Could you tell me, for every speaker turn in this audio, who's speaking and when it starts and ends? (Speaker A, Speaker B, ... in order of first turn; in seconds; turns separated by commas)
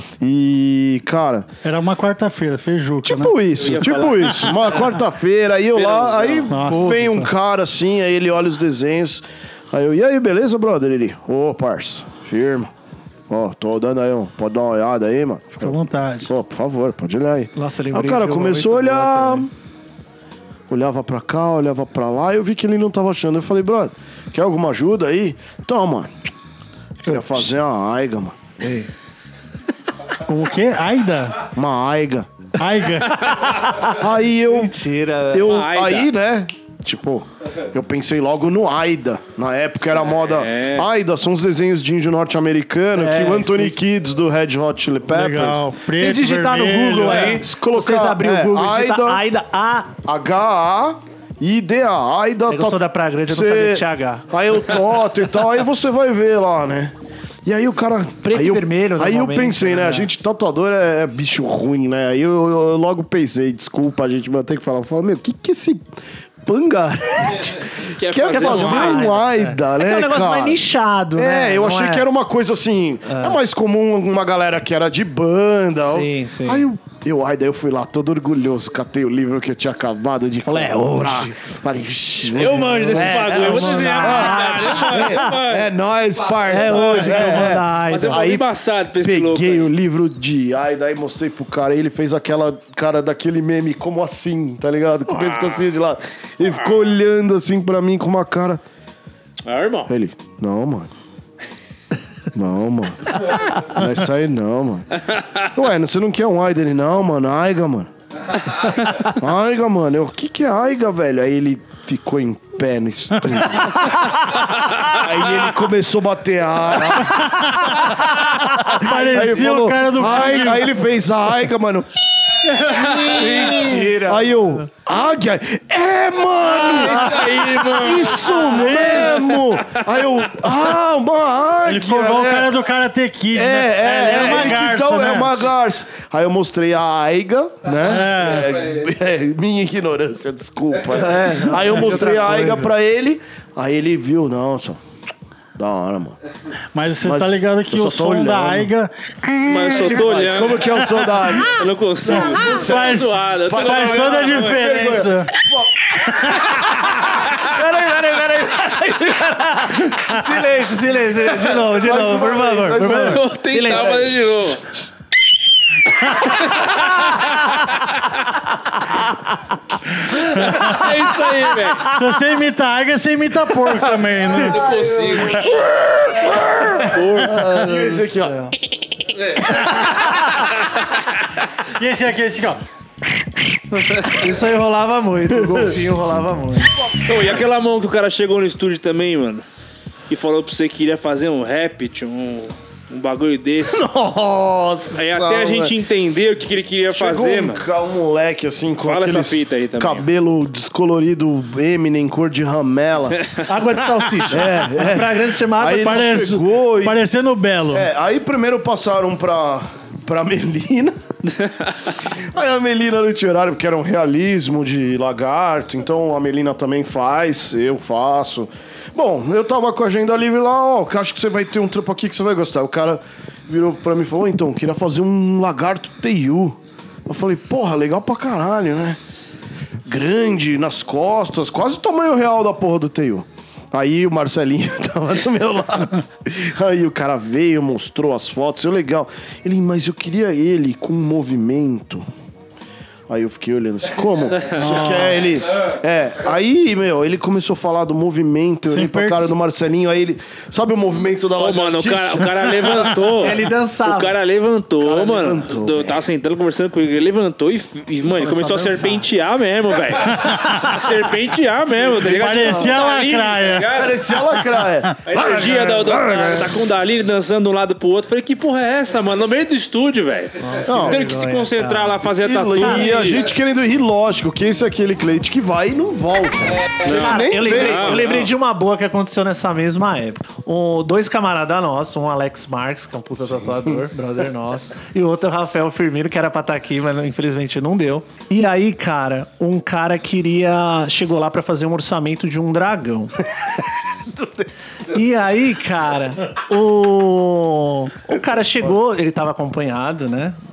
Speaker A: 0.2-1.5, Speaker B: 1.6-3.4, Speaker A: 3.0-12.7, Speaker C: 3.6-4.9, Speaker C: 5.7-6.8, Speaker D: 6.5-7.3, Speaker A: 13.3-19.5, Speaker B: 15.5-16.3, Speaker D: 17.5-19.5, Speaker A: 20.7-26.1, Speaker D: 27.0-27.5, Speaker A: 27.0-28.4, Speaker D: 28.6-28.9, Speaker B: 30.2-31.5, Speaker A: 31.5-32.3, Speaker B: 32.6-33.6, Speaker D: 33.5-35.6, Speaker A: 33.7-34.8, Speaker A: 35.3-45.7, Speaker C: 35.4-36.1, Speaker C: 40.1-40.9, Speaker D: 43.0-43.8, Speaker B: 45.1-47.4, Speaker D: 45.9-49.9, Speaker A: 46.9-49.2, Speaker A: 50.0-56.9, Speaker D: 52.5-54.2, Speaker A: 57.4-70.6, Speaker D: 58.2-60.1, Speaker C: 67.8-69.1, Speaker D: 68.3-72.1, Speaker A: 71.1-88.4, Speaker D: 73.1-73.4, Speaker D: 75.8-76.6, Speaker D: 80.4-81.4, Speaker C: 82.3-85.7, Speaker D: 82.8-85.3, Speaker D: 86.5-88.3, Speaker C: 86.7-87.0, Speaker C: 87.9-89.7, Speaker A: 89.0-98.6, Speaker C: 95.1-95.7, Speaker C: 96.4-96.7, Speaker C: 99.4-99.9, Speaker A: 99.9-100.9, Speaker A: 102.3-104.9, Speaker A: 105.4-107.9, Speaker A: 109.0-121.9, Speaker C: 114.8-115.4, Speaker B: 117.0-120.8, Speaker A: 122.4-132.5, Speaker C: 122.7-123.5, Speaker B: 122.7-123.8, Speaker D: 123.2-124.6, Speaker C: 126.4-129.8, Speaker B: 128.4-129.4, Speaker B: 131.7-135.5, Speaker A: 133.3-144.8, Speaker D: 133.8-134.6, Speaker B: 137.8-138.5, Speaker D: 140.9-142.7, Speaker A: 145.6-146.2, Speaker B: 146.7-151.3, Speaker A: 147.0-148.7, Speaker C: 149.4-150.8, Speaker A: 149.8-156.7, Speaker C: 151.4-154.7, Speaker B: 152.1-155.3, Speaker D: 157.3-164.1, Speaker A: 161.5-164.2, Speaker C: 162.8-164.6, Speaker C: 166.2-168.2, Speaker C: 170.1-172.0, Speaker B: 170.4-170.8, Speaker B: 171.9-174.8, Speaker C: 174.4-175.6, Speaker A: 175.3-178.4, Speaker C: 176.8-177.5, Speaker D: 177.8-178.5, Speaker B: 181.7-182.6, Speaker D: 184.0-186.8, Speaker C: 187.0-189.4, Speaker C: 190.1-193.8, Speaker A: 193.7-195.7, Speaker C: 194.9-197.6, Speaker A: 196.9-203.2, Speaker C: 198.8-200.1, Speaker D: 203.4-206.3, Speaker A: 204.2-207.0, Speaker B: 205.7-207.9, Speaker A: 207.7-211.0, Speaker A: 212.1-229.0, Speaker A: 229.8-242.0, Speaker A: 243.1-253.0, Speaker B: 244.6-245.3, Speaker B: 248.7-249.3, Speaker C: 251.3-264.0, Speaker D: 253.1-254.1, Speaker A: 254.8-255.9, Speaker D: 258.1-259.1, Speaker B: 260.2-260.6, Speaker B: 262.1-263.7, Speaker A: 263.7-266.6, Speaker C: 265.1-273.2, Speaker D: 270.4-272.0, Speaker A: 270.6-271.0, Speaker A: 272.2-278.2, Speaker D: 272.6-272.9, Speaker C: 276.8-278.3, Speaker D: 276.8-293.3, Speaker D: 294.1-300.4